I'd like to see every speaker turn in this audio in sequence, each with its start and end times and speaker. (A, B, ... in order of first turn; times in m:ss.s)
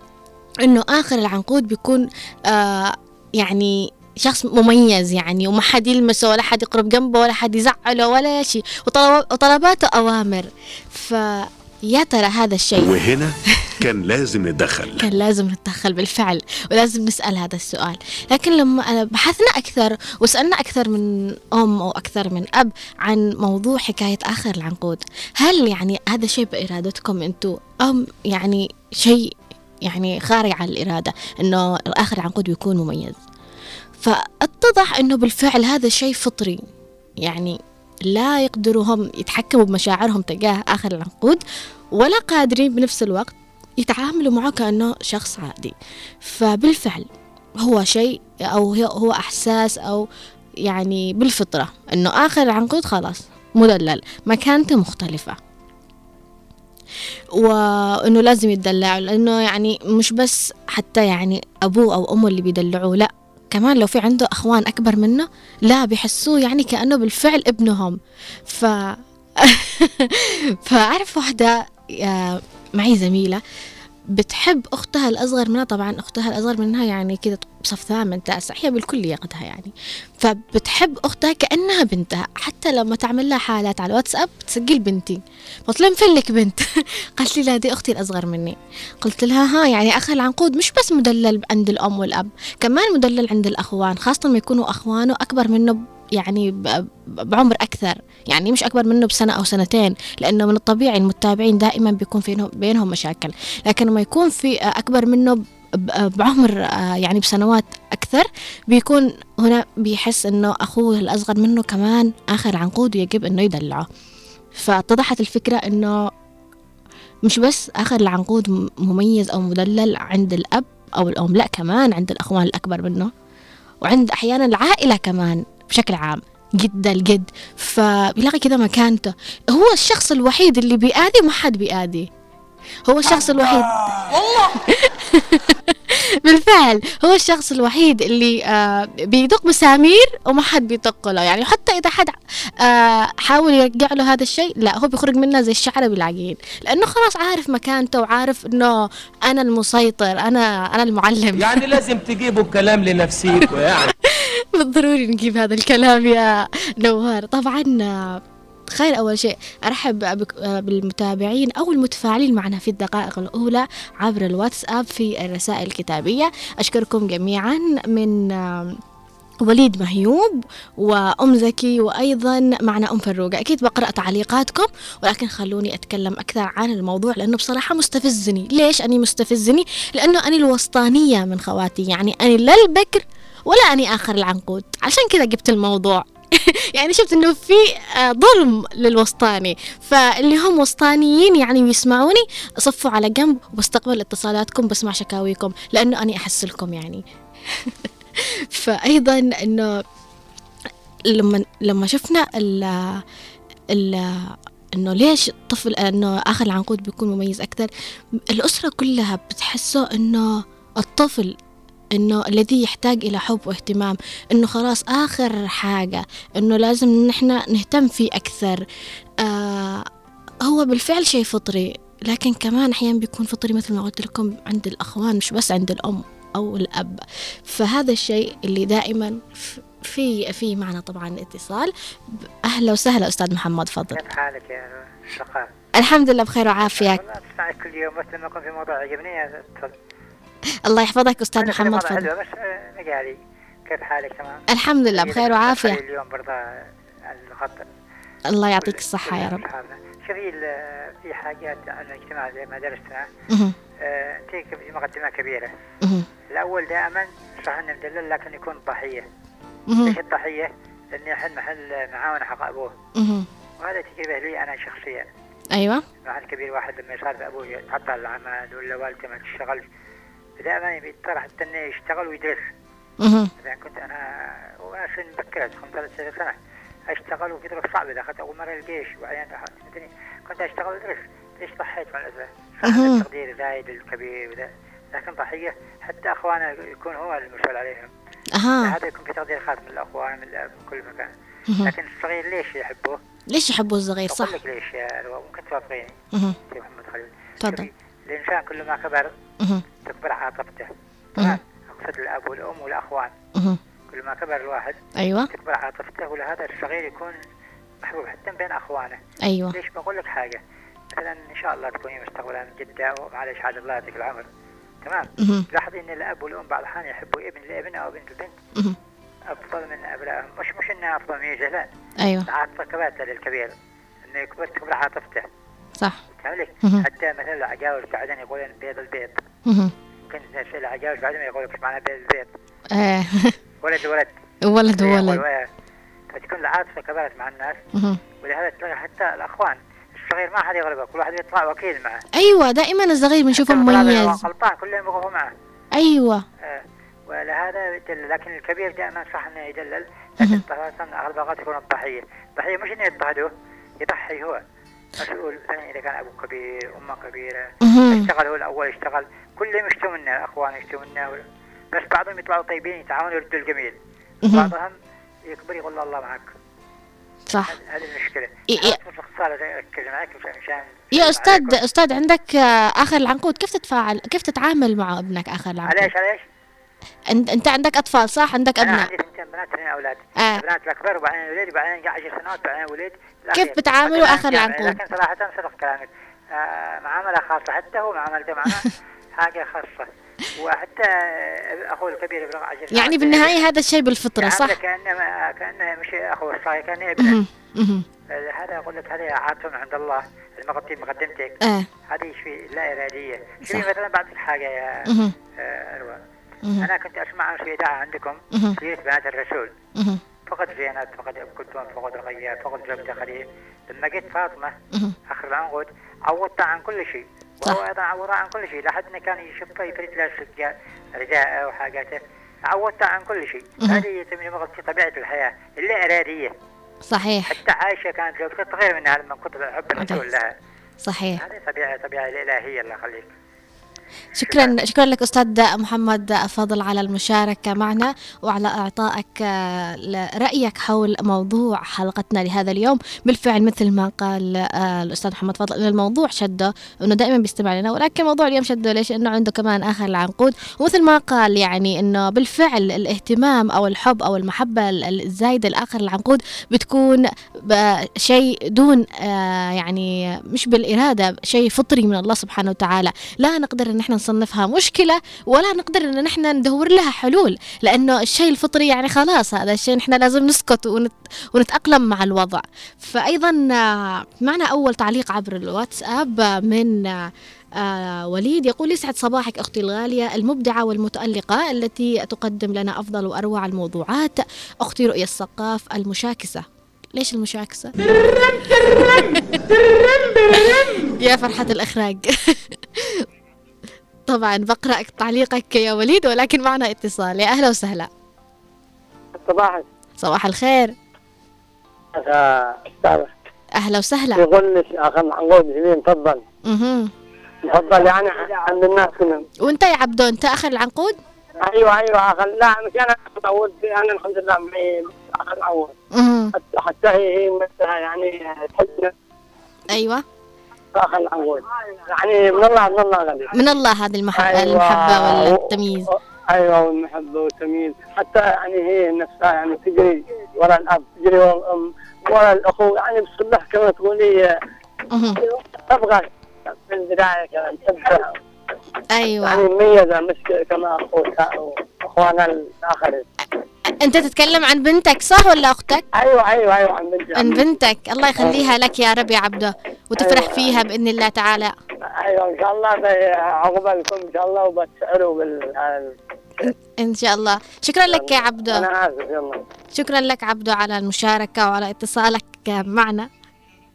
0:00.6-0:13.0 A
0:12.8-0:15.1 B
0:15.0-0:29.3 A
0:29.9-0:33.2 A
0:34.0-0:36.6 A
0:37.2-0:41.4 A
0:42.0-0:47.1 A
0:47.6-0:50.1 A
0:50.7-0:55.4 A
0:57.4-1:13.4 A
1:14.1-1:53.9 A
1:54.6-1:56.0 A
1:57.3-2:03.1 A
2:03.8-2:12.1 A
2:12.9-2:13.7 A
2:14.6-2:31.7 A
2:31.4-2:33.9 C
2:33.9-2:38.2 A
2:38.7-2:48.8 A
2:49.4-3:19.8 A
3:21.1-3:23.0 A
3:23.7-3:27.7 A
3:28.3-3:31.4 A
3:32.0-3:38.6 A
3:39.2-3:39.9 A
3:40.4-3:54.0 A
3:53.9-3:55.5 D
3:55.8-3:57.0 A
3:56.6-3:59.7 D
4:00.7-4:02.1 A
4:01.4-4:06.4 D
4:04.5-4:05.8 A
4:07.1-4:07.7 D
4:08.3-4:09.4 A
4:08.6-4:13.1 D
4:13.3-4:13.6 A
4:13.8-4:15.5 D
4:16.3-4:19.1 D
4:19.7-4:20.0 A
4:19.8-4:22.7 D
4:23.0-4:23.3 A
4:23.6-4:25.1 D
4:25.5-4:25.8 A
4:26.0-4:29.6 D
4:30.4-4:32.5 D
4:33.0-4:33.3 A
4:33.4-4:36.4 D
4:36.9-4:47.9 D
4:42.7-4:43.1 A
4:48.4-4:48.8 A
4:48.6-4:51.1 D
4:51.6-4:53.0 D
4:53.3-4:54.4 A
4:54.1-4:56.0 D
4:56.5-4:59.1 D
4:57.4-4:57.7 A
4:59.8-5:03.1 D
5:03.9-5:04.8 D
5:05.0-5:05.3 A
5:05.3-5:07.2 D
5:07.8-5:09.0 D
5:09.2-5:09.6 A
5:09.5-5:10.4 D
5:10.9-5:14.3 D
5:14.8-5:18.4 D
5:15.2-5:15.5 A
5:19.3-5:21.7 D
5:22.0-5:22.3 A
5:22.3-5:25.3 D
5:26.2-5:29.2 D
5:29.5-5:29.7 A
5:30.1-5:32.3 D
5:32.7-5:33.3 A
5:33.6-5:34.1 D
5:34.4-5:35.2 A
5:34.7-5:35.5 D
5:36.1-5:37.6 D
5:37.8-5:38.0 A
5:38.2-5:42.0 D
5:42.2-5:44.2 A
5:43.4-5:45.3 D
5:45.7-5:46.2 A
5:46.4-5:53.3 D
5:53.8-5:54.4 D
5:55.0-6:01.2 D
5:57.6-5:58.1 A
6:01.7-6:03.8 D
6:04.2-6:04.5 A
6:04.3-6:04.7 D
6:05.3-6:06.3 D
6:07.3-6:07.6 A
6:07.4-6:11.6 D
6:08.5-6:08.8 A
6:11.0-6:15.9 A
6:15.7-6:16.2 D
6:17.1-6:18.9 A
6:18.6-6:33.4 D
6:23.4-6:24.8 A
6:32.7-6:34.6 A
6:34.2-6:37.2 D
6:37.0-6:37.9 A
6:38.1-6:41.4 D
6:41.4-6:41.7 A
6:41.9-6:46.0 D
6:44.9-6:45.2 A
6:46.6-6:49.5 D
6:50.3-6:54.6 D
6:55.1-7:06.3 D
7:06.9-7:07.3 A
7:07.3-7:10.3 D
7:10.8-7:11.2 A
7:11.2-7:13.1 D
7:14.2-8:07.7 A
7:14.2-7:14.5 D
8:08.5-8:09.5 A
8:10.3-8:13.0 A
8:14.1-8:17.9 A
8:19.2-8:19.6 E
8:20.0-8:20.8 A
8:21.9-8:23.1 E
8:23.6-8:24.2 A
8:24.2-8:26.2 E
8:26.4-8:26.9 A
8:27.5-8:29.2 E
8:29.4-8:31.0 A
8:31.4-8:35.7 E
8:35.9-8:36.3 A
8:36.3-8:38.9 E
8:39.7-8:40.0 A
8:40.8-8:43.3 E
8:43.4-8:45.9 A
8:44.2-8:45.5 E
8:46.3-8:54.3 E
8:54.9-8:55.2 A
8:55.2-8:58.1 E
8:58.9-8:59.5 A
8:59.2-9:03.1 E
9:03.8-9:05.8 A
9:05.9-9:07.5 E
9:07.2-9:11.6 A
9:08.2-9:08.5 E
9:10.0-9:10.7 E
9:11.9-9:16.5 E
9:16.4-9:18.7 A
9:17.9-9:19.4 E
9:19.7-9:23.1 A